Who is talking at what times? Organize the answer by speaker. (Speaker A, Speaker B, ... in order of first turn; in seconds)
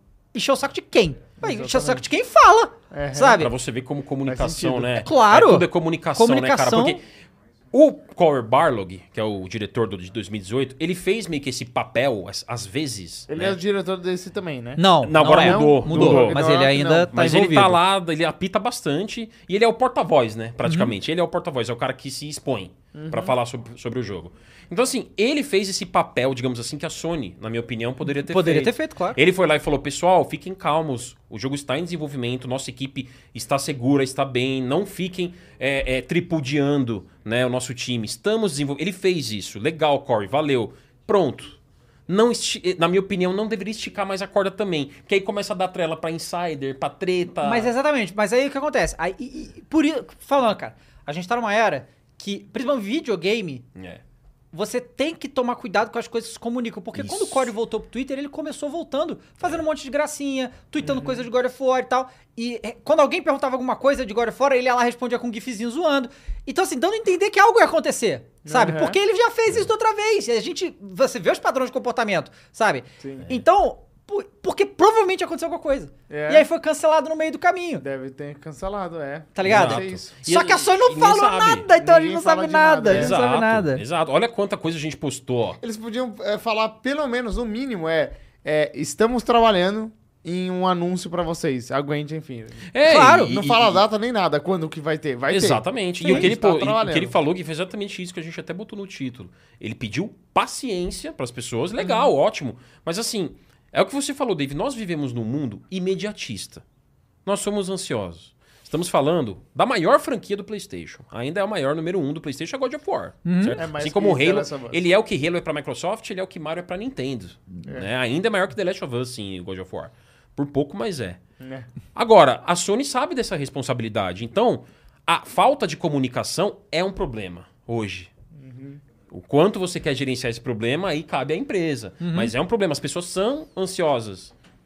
Speaker A: 0.3-3.5, 5.0-7.0, 14.8-17.8, 20.6-20.9, 28.1-29.2, 47.4-53.7, 54.5-77.8, 79.3-83.8, 92.8-93.3, 113.2-113.6, 132.0-132.3
Speaker B: 1.4-2.0, 2.9-3.5, 4.3-5.0, 13.3-17.1, 22.9-23.4, 60.9-61.3, 68.5-69.0, 73.0-73.3, 76.1-76.5, 77.8-80.1, 81.8-83.2, 85.6-97.2, 113.6-114.8, 121.4-121.7, 128.4-128.8
Speaker C: 3.4-7.0, 7.7-13.6, 15.0-16.4, 17.1-47.7, 53.8-54.0, 57.0-57.5, 79.4-81.7, 82.9-85.6, 92.7-93.8, 95.3-106.6, 107.2-121.2, 121.9-128.1, 129.1-134.3